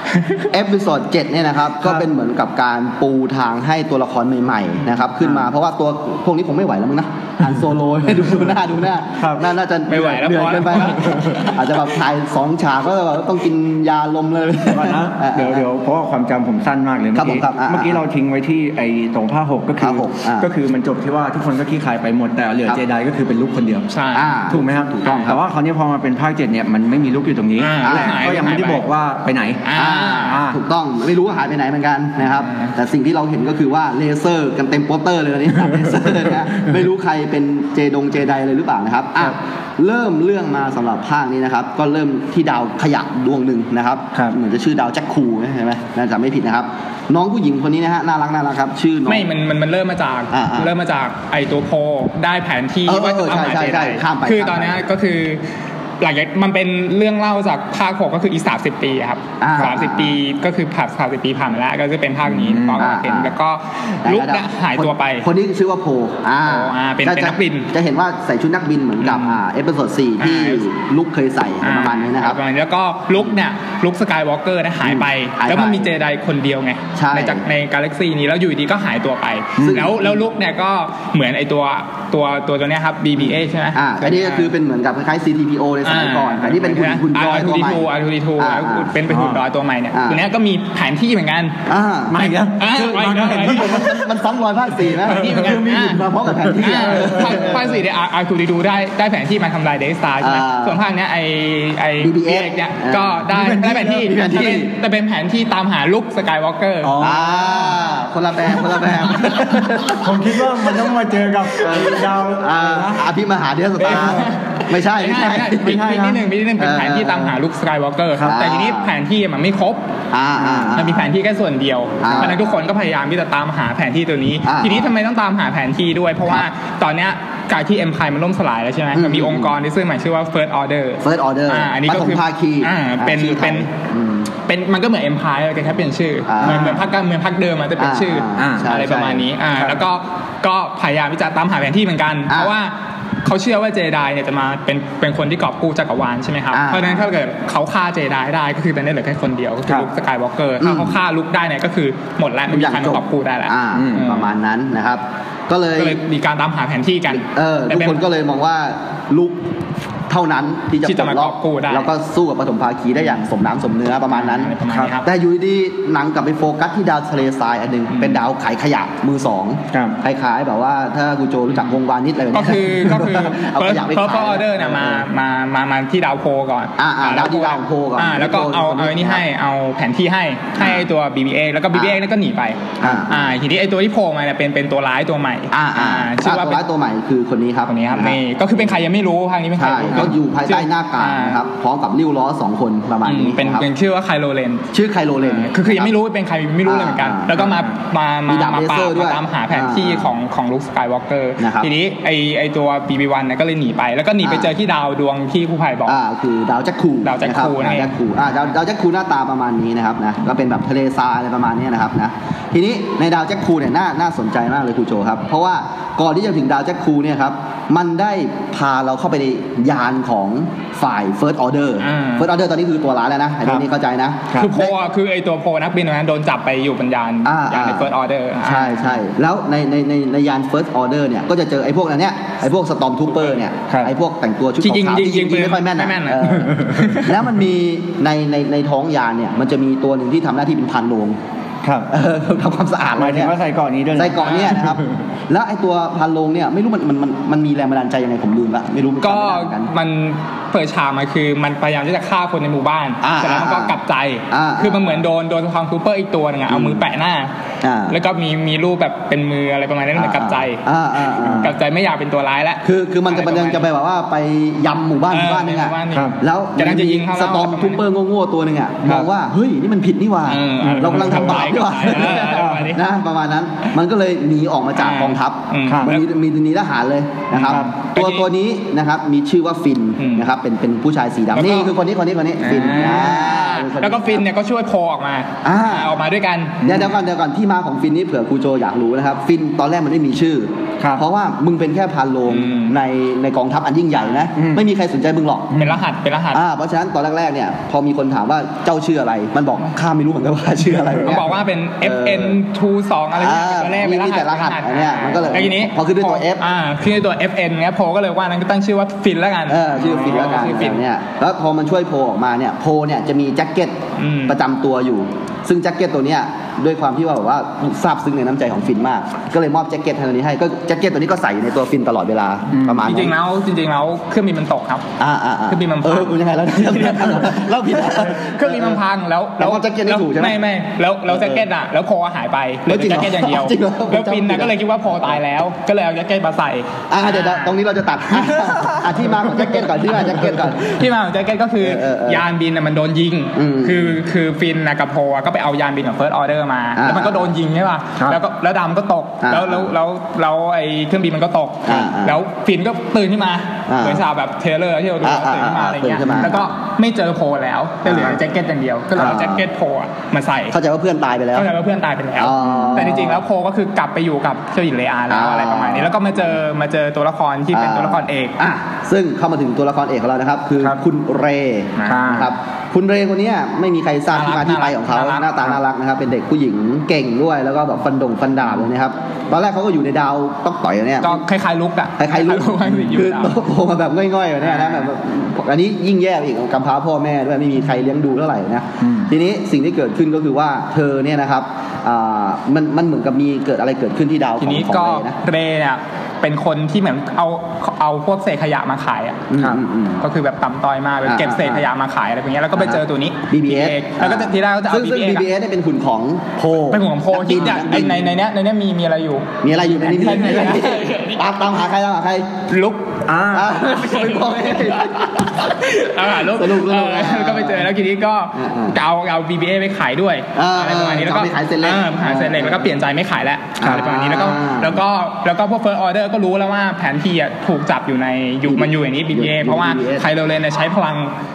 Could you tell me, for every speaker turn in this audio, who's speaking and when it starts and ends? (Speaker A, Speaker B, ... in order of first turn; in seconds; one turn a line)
Speaker A: 0.1-0.5
Speaker B: 0.5-15.6
Speaker C: 9.2-9.5
Speaker A: 9.9-11.6
Speaker C: 10.9-11.5
Speaker C: 14.7-23.9
Speaker B: 17.2-18.0
Speaker B: 19.8-20.5
Speaker A: 23.9-24.3
Speaker B: 24.1-25.4
Speaker C: 24.5-29.7
Speaker A: 25.1-25.3
Speaker A: 27.6-28.8
Speaker B: 27.8-28.2
Speaker A: 29.6-30.6
Speaker B: 29.8-49.3
Speaker A: 32.4-32.7
Speaker C: 35.7-36.8
Speaker A: 49.1-55.4
Speaker B: 50.3-50.7
Speaker B: 52.9-54.8
Speaker A: 56.0-65.3
Speaker B: 59.4-60.2
Speaker C: 62.2-62.9
Speaker B: 62.8-63.3
Speaker B: 64.0-72.4
Speaker A: 66.4-67.7
Speaker A: 69.0-69.4
Speaker A: 70.2-70.6
Speaker A: 71.6-84.5
Speaker B: 74.8-75.9
Speaker B: 77.0-77.4
Speaker C: 79.6-79.9
Speaker B: 79.6-80.3
Speaker B: 83.7-87.9
Speaker A: 85.8-91.6
Speaker B: 88.4-88.9
Speaker C: 89.1-89.4
Speaker B: 89.9-90.2
Speaker B: 91.7-92.2
Speaker C: 92.1-94.1
Speaker A: 92.6-93.9
Speaker B: 92.8-97.8
Speaker C: 95.0-95.6
Speaker A: 95.0-96.0
Speaker C: 96.5-97.6
Speaker A: 96.6-107.0
Speaker B: 100.2-100.8
Speaker B: 102.0-103.2
Speaker C: 103.3-104.1
Speaker B: 103.9-104.7
Speaker C: 106.8-107.9
Speaker B: 107.0-110.8
Speaker C: 108.7-113.1
Speaker B: 111.5-117.4
Speaker A: 113.8-119.8
Speaker C: 113.8-114.2
Speaker B: 118.2-118.9
Speaker B: 120.1-121.1
Speaker C: 120.4-120.8
Speaker A: 120.8-133.7
Speaker B: 122.0-122.4
Speaker B: 124.5-124.9
Speaker B: 128.9-129.5
Speaker B: 131.0-134.3
Speaker A: 134.5-154.3
Speaker B: 136.3-136.8
Speaker C: 136.4-136.8
Speaker B: 137.8-139.8
Speaker C: 138.4-138.7
Speaker B: 146.5-147.1
Speaker B: 150.6-151.0
Speaker B: 152.5-156.0
Speaker C: 153.7-154.1
Speaker A: 155.8-158.0
Speaker B: 157.1-159.4
Speaker B: 160.1-175.1
Speaker A: 160.8-161.9
Speaker A: 164.1-165.1
Speaker A: 167.9-168.2
Speaker C: 169.7-170.0
Speaker A: 172.3-186.6
Speaker B: 176.8-179.2
Speaker B: 180.6-180.8
Speaker B: 182.8-183.3
Speaker B: 185.5-188.8
Speaker A: 187.7-191.4
Speaker B: 189.6-193.7
Speaker A: 193.1-194.7
Speaker B: 194.7-195.9
Speaker A: 195.2-206.0
Speaker B: 196.7-197.5
Speaker B: 198.3-200.1
Speaker B: 201.4-201.7
Speaker B: 204.2-204.5
Speaker B: 205.9-224.7
Speaker A: 207.0-207.9
Speaker A: 221.8-222.3
Speaker A: 224.4-229.0
Speaker B: 227.2-227.9
Speaker B: 228.4-241.2
Speaker A: 233.1-233.4
Speaker C: 233.7-233.9
Speaker A: 234.6-237.1
Speaker C: 236.3-237.0
Speaker C: 241.6-241.9
Speaker B: 241.9-243.3
Speaker C: 243.0-245.0
Speaker B: 244.0-249.7
Speaker A: 244.2-244.6
Speaker A: 249.0-257.3
Speaker B: 253.0-253.8
Speaker B: 254.3-255.0
Speaker B: 256.5-256.8
Speaker B: 257.6-258.0
Speaker A: 257.9-260.6
Speaker B: 260.0-261.5
Speaker C: 261.2-261.5
Speaker A: 261.4-263.6
Speaker B: 262.6-284.2
Speaker A: 265.1-267.8
Speaker C: 265.9-266.2
Speaker A: 270.3-272.8
Speaker C: 270.6-272.7
Speaker A: 274.8-276.1
Speaker C: 275.7-275.9
Speaker A: 277.3-278.3
Speaker A: 280.0-280.3
Speaker A: 281.3-281.7
Speaker A: 282.4-286.8
Speaker B: 285.4-286.0
Speaker B: 286.6-295.6
Speaker A: 292.3-292.8
Speaker A: 294.0-294.3
Speaker C: 294.4-294.7
Speaker A: 295.5-296.4
Speaker B: 296.3-302.4
Speaker A: 301.0-310.8
Speaker B: 303.1-306.4
Speaker B: 309.5-323.1
Speaker C: 309.8-310.5
Speaker A: 314.0-314.4
Speaker C: 322.5-322.9
Speaker A: 322.8-324.9
Speaker B: 325.0-328.8
Speaker A: 325.5-327.3
Speaker A: 327.9-337.6
Speaker B: 329.4-330.4
Speaker B: 331.1-331.4
Speaker B: 332.7-334.5
Speaker B: 336.9-340.8
Speaker A: 340.5-360.6
Speaker B: 341.6-342.2
Speaker B: 343.4-344.0
Speaker B: 346.8-347.3
Speaker B: 349.2-349.7
Speaker B: 351.7-352.2
Speaker B: 353.7-354.0
Speaker B: 355.0-356.4
Speaker B: 357.9-358.2
Speaker B: 359.0-359.5
Speaker B: 360.5-361.5
Speaker A: 361.4-368.4
Speaker B: 362.2-363.2
Speaker C: 362.4-363.0
Speaker B: 365.1-366.2
Speaker B: 367.5-381.2
Speaker A: 371.8-372.3
Speaker A: 374.1-375.3
Speaker A: 381.0-383.4
Speaker B: 382.0-395.2
Speaker A: 384.4-384.9
Speaker C: 388.8-389.1
Speaker A: 394.4-399.2
Speaker B: 399.3-400.0
Speaker A: 400.0-405.3
Speaker B: 401.1-401.7
Speaker B: 402.6-408.1
Speaker A: 406.7-411.2
Speaker B: 409.4-412.3
Speaker C: 410.1-410.4
Speaker A: 412.5-413.0
Speaker C: 413.1-413.6
Speaker B: 413.3-417.7
Speaker A: 413.6-431.1
Speaker B: 418.4-418.8
Speaker B: 420.4-422.7
Speaker B: 423.6-424.8
Speaker B: 428.5-430.1